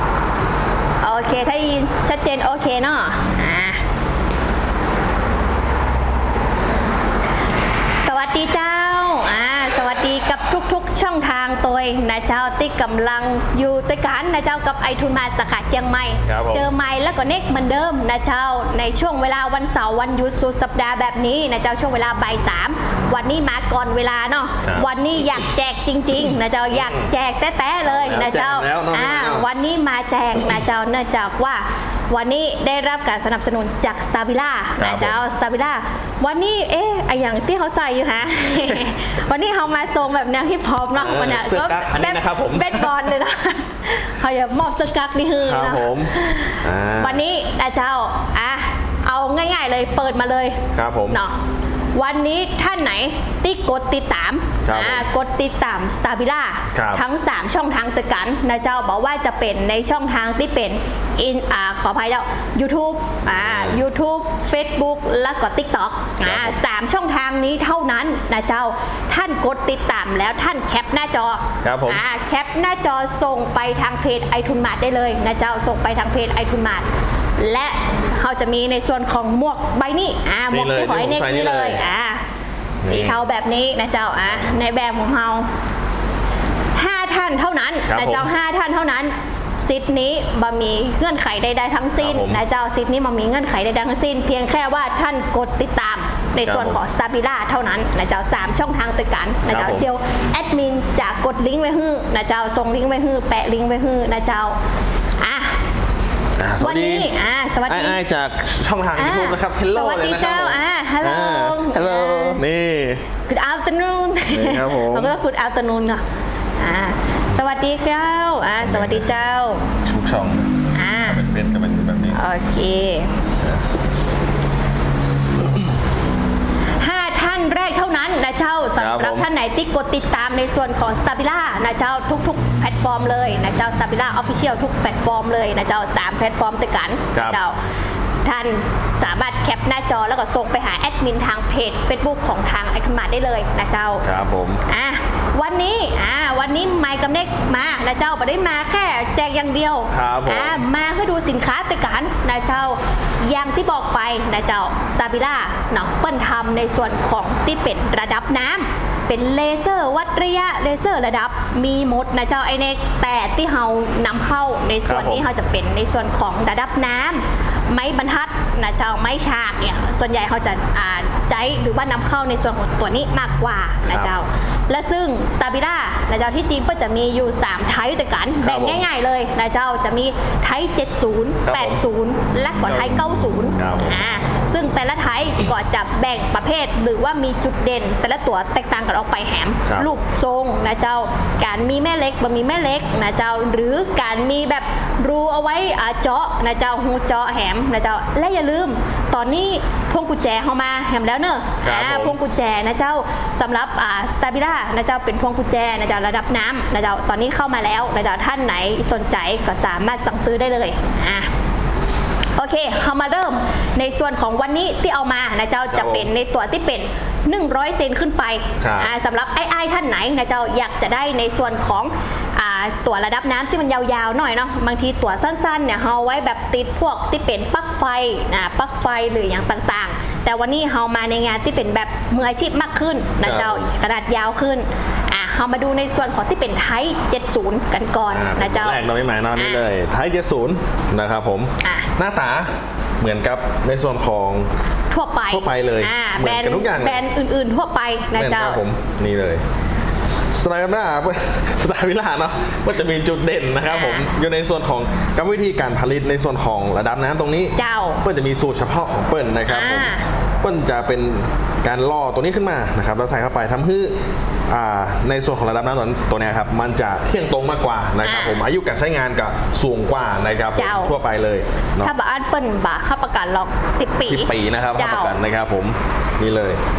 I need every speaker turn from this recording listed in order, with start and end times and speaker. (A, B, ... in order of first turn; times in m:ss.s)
0:01.0-0:03.8 A
0:08.0-0:51.4 A
0:16.2-0:16.7 B
0:24.6-0:24.9 B
0:26.7-0:27.1 B
0:27.8-0:29.5 B
0:34.8-0:35.2 B
0:40.9-0:43.1 B
0:45.4-0:47.2 B
0:50.7-0:51.2 B
0:51.9-1:16.9 A
0:54.6-0:55.0 B
0:56.7-0:57.0 B
1:03.3-1:03.8 B
1:06.2-1:06.6 B
1:11.6-1:12.0 B
1:17.4-1:22.2 A
1:20.5-1:21.8 B
1:22.8-1:23.2 B
1:22.8-1:25.5 A
1:26.7-1:44.6 A
1:27.9-1:28.3 B
1:32.0-1:32.4 B
1:36.4-1:36.8 B
1:39.5-1:39.9 B
1:45.2-1:45.6 A
1:46.4-1:47.1 B
1:46.6-1:48.0 A
1:47.7-1:53.0 B
1:49.0-1:52.4 A
1:53.2-1:56.0 A
1:54.3-1:55.2 B
1:56.6-1:59.7 A
1:58.6-1:59.2 B
1:59.8-2:00.5 B
2:00.7-2:01.2 A
2:01.0-2:02.2 B
2:02.1-2:03.2 A
2:03.4-2:03.7 B
2:06.8-2:17.6 A
2:08.8-2:09.3 B
2:17.1-2:17.4 B
2:18.2-2:24.0 A
2:24.0-2:24.6 B
2:24.7-3:31.3 A
2:29.9-2:30.6 B
2:44.9-2:45.2 B
2:53.8-2:54.1 B
2:58.4-2:58.8 B
3:01.4-3:01.8 B
3:02.6-3:04.0 B
3:09.6-3:10.0 B
3:21.6-3:22.2 B
3:32.4-3:58.8 A
3:35.7-3:36.1 B
3:38.6-3:38.9 B
3:53.2-3:53.7 B
3:58.1-4:04.5 B
3:59.4-3:59.6 A
4:01.6-4:01.9 A
4:04.9-4:08.6 A
4:05.3-4:07.0 B
4:08.1-4:09.4 B
4:10.3-4:23.9 B
4:13.7-4:14.1 A
4:17.5-4:18.0 A
4:19.5-4:20.0 A
4:24.5-4:31.9 B
4:28.0-4:28.4 A
4:30.6-4:30.9 A
4:31.8-4:35.2 A
4:34.0-4:36.6 B